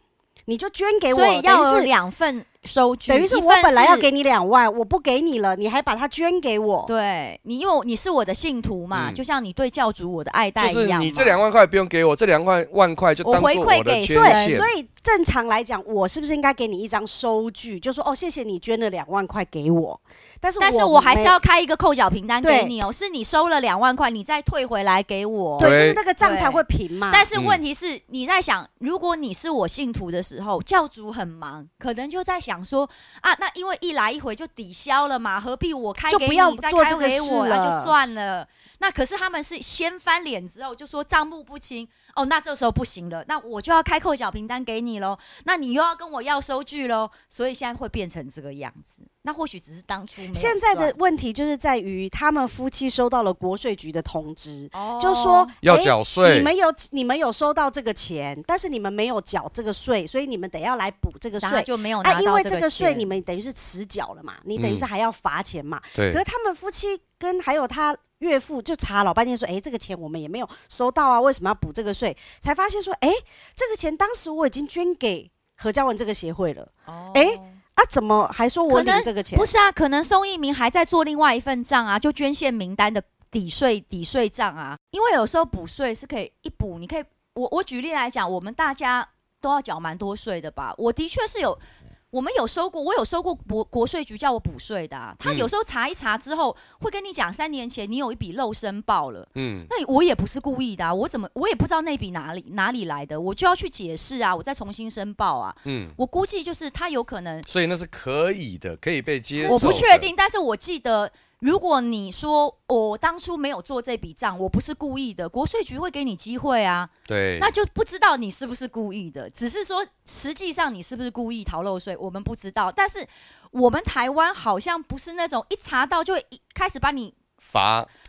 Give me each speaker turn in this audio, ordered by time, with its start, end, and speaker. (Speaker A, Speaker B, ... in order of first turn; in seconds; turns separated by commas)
Speaker A: 0.5-1.9, Speaker B: 1.1-4.1, Speaker A: 3.1-6.9, Speaker B: 6.8-11.4, Speaker C: 8.9-9.2, Speaker C: 10.6-14.7, Speaker B: 13.2-14.6, Speaker A: 14.1-21.4, Speaker B: 20.6-50.9, Speaker A: 22.4-22.7, Speaker A: 25.6-27.3, Speaker C: 25.6-26.0, Speaker C: 27.3-27.6, Speaker A: 36.1-37.9, Speaker A: 50.3-79.5, Speaker B: 54.7-55.5, Speaker C: 55.6-56.5, Speaker B: 61.4-63.1, Speaker C: 64.5-64.9, Speaker C: 66.0-66.2, Speaker B: 76.9-77.6, Speaker B: 78.7-91.6, Speaker B: 92.1-107.5, Speaker C: 95.2-95.5, Speaker C: 99.3-99.7, Speaker C: 105.6-106.0, Speaker C: 107.5-110.1, Speaker B: 109.4-127.2, Speaker A: 109.5-109.7, Speaker C: 117.1-117.5, Speaker C: 127.4-127.9